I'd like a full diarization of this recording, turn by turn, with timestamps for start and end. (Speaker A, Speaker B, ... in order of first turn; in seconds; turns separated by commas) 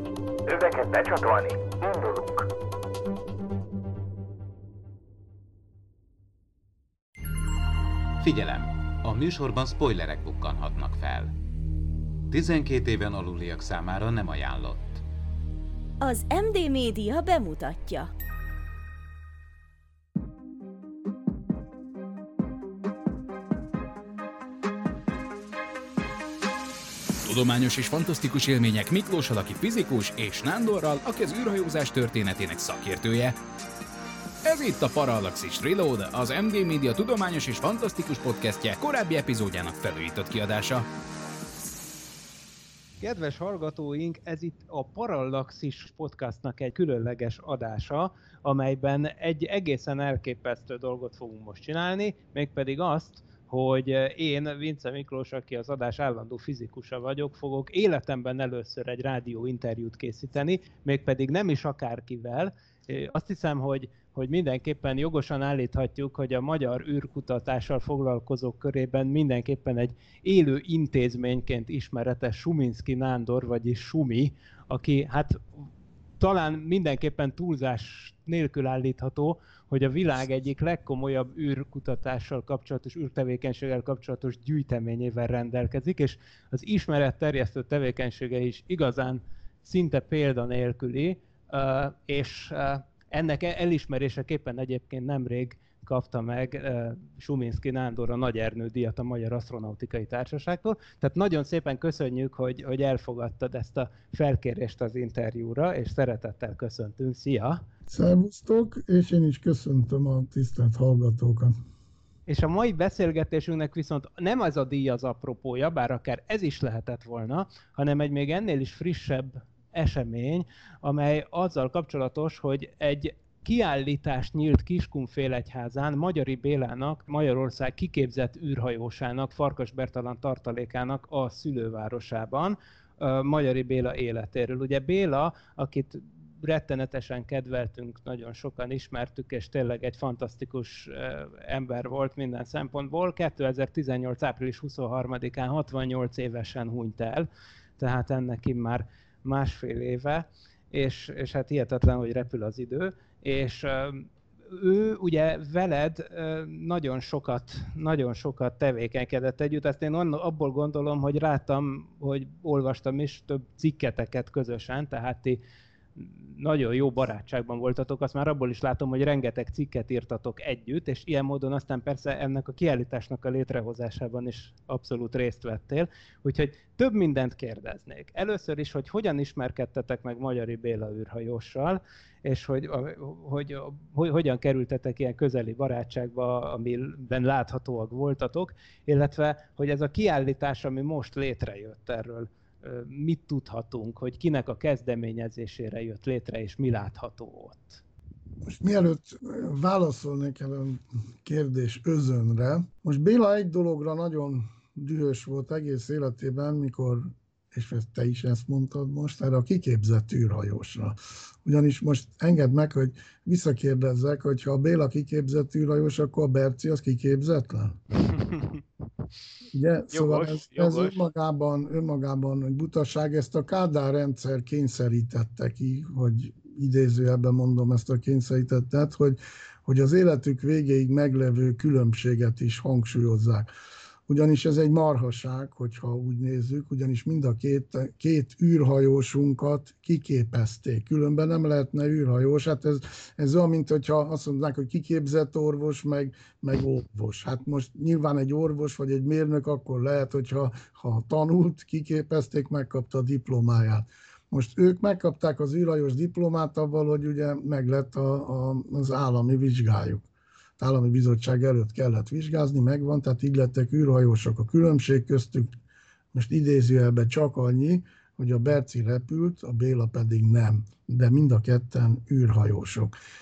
Speaker A: 0.5-2.5, Speaker A: 8.2-11.3, Speaker A: 12.3-15.0, Speaker B: 16.0-18.1, Speaker C: 27.2-33.4, Speaker C: 34.4-40.9, Speaker D: 43.0-75.7, Speaker D: 76.2-107.6, Speaker E: 107.9-111.5, Speaker D: 112.3-165.4, Speaker D: 165.9-197.8, Speaker E: 198.4-217.8, Speaker D: 218.1-218.6, Speaker E: 219.5-233.5, Speaker D: 219.9-221.0, Speaker E: 234.1-260.1, Speaker E: 260.6-265.5, Speaker E: 266.1-272.9